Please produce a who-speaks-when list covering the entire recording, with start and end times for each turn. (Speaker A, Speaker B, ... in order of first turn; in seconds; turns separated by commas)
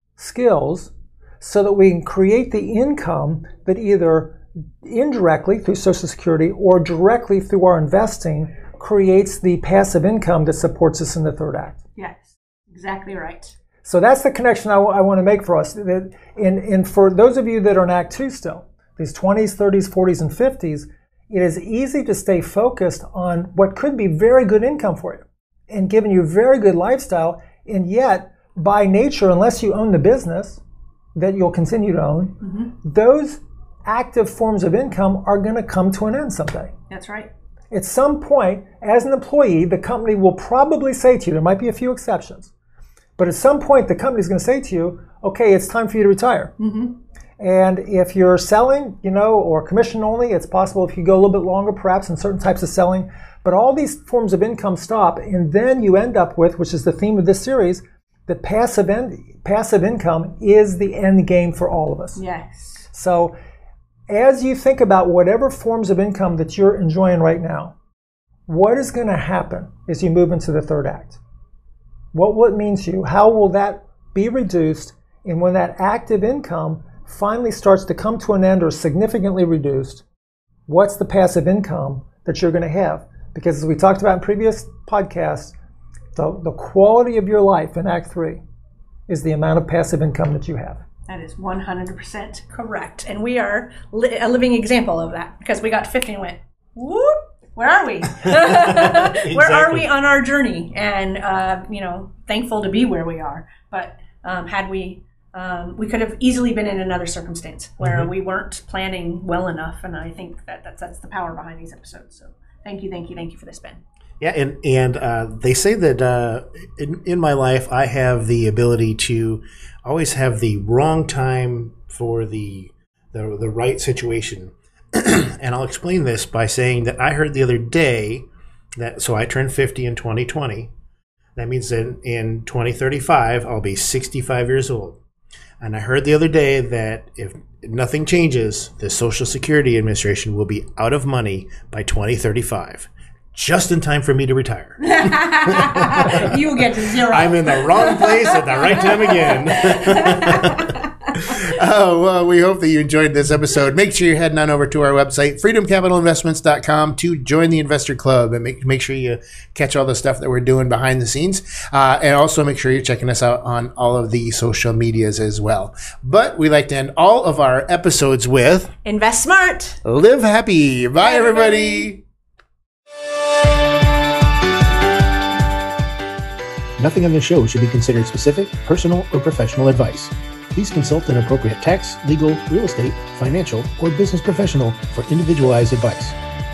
Speaker A: 0.2-11.8, Speaker B: 11.9-13.5, Speaker A: 13.8-30.6, Speaker A: 31.1-36.7, Speaker B: 32.4-32.7, Speaker B: 36.9-37.3, Speaker A: 37.7-42.5, Speaker A: 43.2-46.5, Speaker B: 46.6-47.0, Speaker A: 47.4-62.2, Speaker B: 62.1-62.9, Speaker A: 62.9-63.3, Speaker A: 64.1-67.7, Speaker A: 68.5-71.2, Speaker A: 72.1-80.0, Speaker A: 80.7-85.5, Speaker A: 86.1-88.4, Speaker A: 89.1-90.8, Speaker B: 91.1-113.8, Speaker C: 98.2-99.9, Speaker C: 107.8-108.1, Speaker C: 114.2-128.2, Speaker C: 128.8-130.7, Speaker C: 131.3-135.0, Speaker C: 135.6-146.3, Speaker B: 144.8-151.3, Speaker C: 147.1-150.6, Speaker C: 151.1-168.7, Speaker B: 168.8-169.8, Speaker C: 169.8-172.0, Speaker B: 171.0-171.8, Speaker C: 176.8-186.2